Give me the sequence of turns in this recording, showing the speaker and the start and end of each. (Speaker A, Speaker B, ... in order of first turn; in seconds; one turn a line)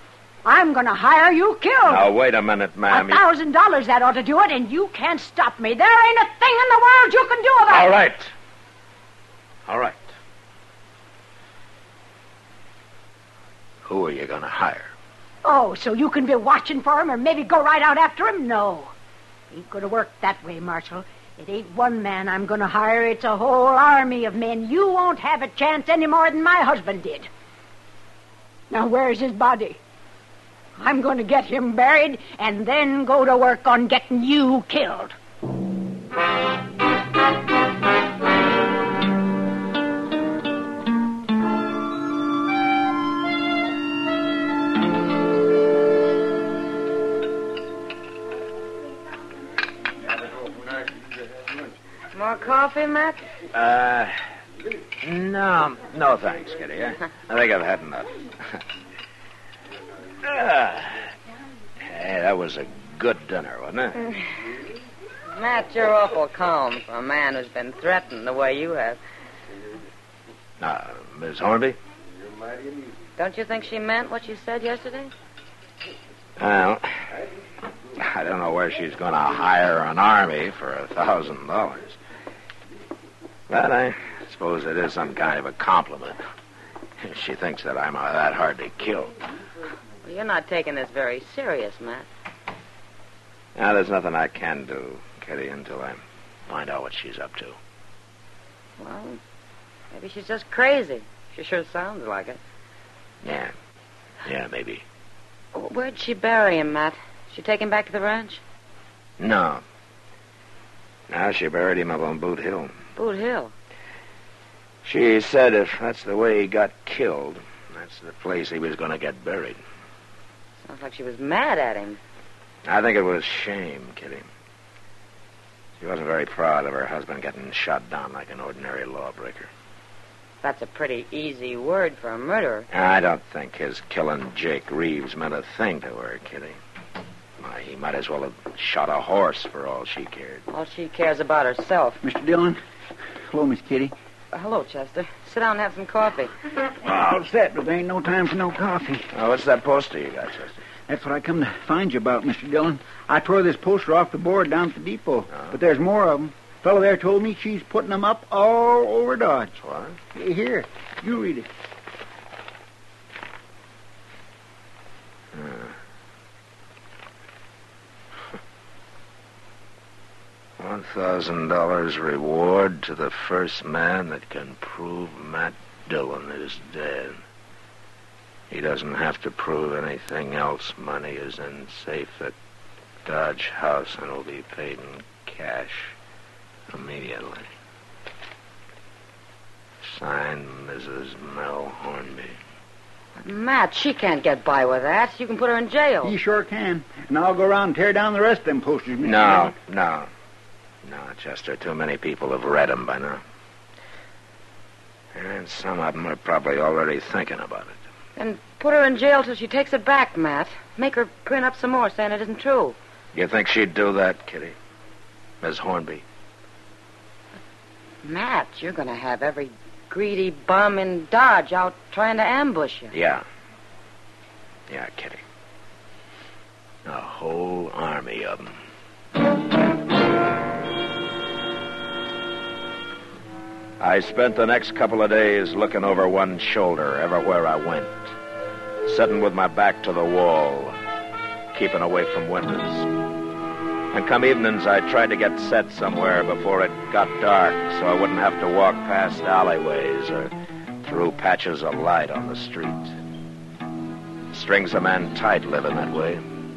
Speaker A: 0.5-2.1
Speaker B: 1.9-3.2
Speaker A: 2.9-7.9
Speaker B: 7.7-8.3
Speaker B: 9.7-10.1
Speaker B: 13.8-14.9
Speaker A: 15.4-18.9
Speaker A: 19.5-27.3
Speaker A: 28.7-29.8
Speaker A: 30.8-35.1
Speaker C: 52.1-53.2
Speaker B: 53.5-54.1
Speaker B: 55.0-58.6
Speaker B: 60.2-61.0
Speaker B: 61.8-64.0
Speaker C: 65.3-69.0
Speaker B: 70.6-71.8
Speaker C: 73.2-75.1
Speaker B: 76.4-76.9
Speaker B: 78.0-82.0
Speaker B: 83.5-86.2
Speaker B: 87.0-89.1
Speaker C: 90.0-92.1
Speaker B: 93.6-97.6
Speaker C: 98.8-99.2
Speaker C: 99.9-102.4
Speaker B: 103.2-103.5
Speaker B: 104.2-104.8
Speaker C: 105.5-108.4
Speaker B: 109.2-109.6
Speaker B: 111.1-112.8
Speaker C: 113.0-113.5
Speaker B: 114.8-119.6
Speaker C: 120.6-122.0
Speaker B: 122.7-124.3
Speaker B: 125.8-129.5
Speaker C: 130.4-132.7
Speaker B: 132.7-136.6
Speaker B: 137.4-140.4
Speaker C: 140.5-142.0
Speaker D: 142.0-142.6
Speaker D: 143.3-143.9
Speaker C: 144.3-146.3
Speaker D: 146.9-149.1
Speaker B: 149.1-150.6
Speaker D: 150.9-159.5
Speaker B: 159.6-160.0
Speaker D: 160.1-161.5
Speaker B: 165.3-165.7
Speaker B: 170.6-177.2
Speaker B: 178.5-182.3
Speaker B: 183.1-185.9
Speaker B: 186.7-187.4
Speaker B: 189.8-192.4
Speaker C: 193.2-196.1
Speaker D: 196.0-199.6
Speaker B: 199.0-200.1
Speaker B: 200.8-203.2
Speaker B: 205.2-207.8
Speaker C: 208.2-212.8
Speaker B: 213.1-214.6
Speaker B: 215.4-216.0
Speaker C: 218.0-222.9
Speaker B: 222.9-223.2
Speaker B: 224.7-225.2
Speaker B: 226.9-228.6
Speaker B: 233.8-238.1
Speaker B: 238.8-240.8
Speaker B: 241.5-242.9
Speaker B: 243.9-250.3
Speaker B: 250.8-252.9
Speaker B: 254.3-256.2